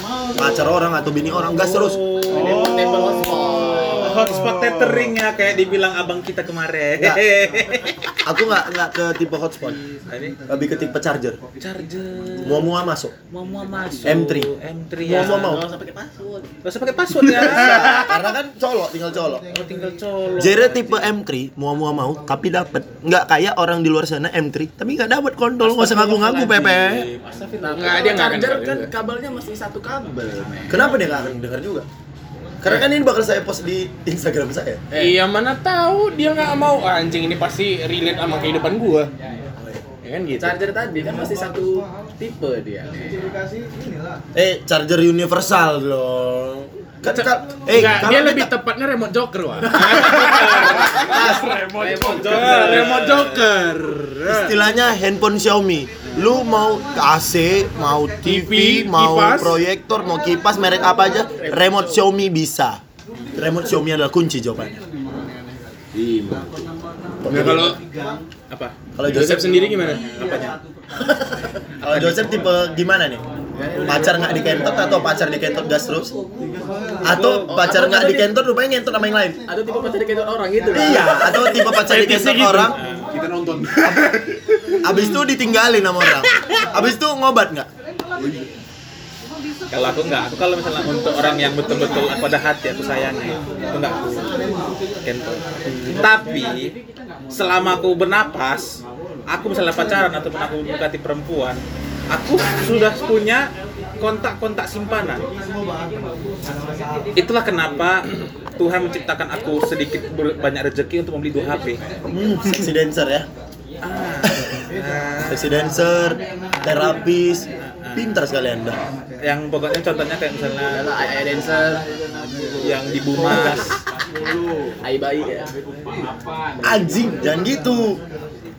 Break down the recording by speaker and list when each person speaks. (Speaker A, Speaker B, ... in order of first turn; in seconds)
Speaker A: 0.3-2.0, 8.2-9.8, 10.5-11.4, 12.4-13.1, 14.0-14.5, 15.0-15.6, 17.3-19.4, 20.4-27.1, 30.7-31.9, 32.6-34.8, 44.3-48.5, 51.0-51.5, 54.3-62.8, 63.4-64.8, 67.2-67.8, 68.9-69.6, 71.8-73.2, 73.8-76.1, 77.0-79.4, 80.7-82.8, 83.8-84.1, 84.8-87.7, 112.1-113.3, 115.2-118.8, 126.6-128.0
Speaker B: 1.5-3.0, 3.9-8.1, 10.1-10.3, 11.6-12.7, 13.3-15.6, 16.6-18.2, 19.5-21.1, 26.7-28.3, 49.7-51.1, 51.8-53.5, 68.5-68.7, 70.0-70.5, 71.8-72.3, 77.1-77.5, 82.7-83.1, 89.7-94.3, 95.0-96.7, 97.3-103.5, 104.0-105.2, 107.2-111.8, 113.8-115.5, 117.6-118.1, 119.2-120.9, 122.6-123.8
Speaker C: 2.3-4.2, 15.0-16.5, 25.6-26.9, 27.6-31.1, 34.9-35.2, 40.4-43.2, 50.3-53.0, 60.9-62.0, 73.5-75.1, 77.2-78.3, 79.5-81.5, 120.7-121.8, 123.2-123.7, 124.8-125.5
Speaker D: 2.4-5.1, 65.9-66.6, 67.3-67.6, 83.1-84.7, 88.2-88.5
Speaker E: 27.7-28.9, 34.9-39.1, 40.0-40.6, 47.1-54.5, 58.2-59.6, 67.3-67.8, 69.0-70.0, 81.7-82.7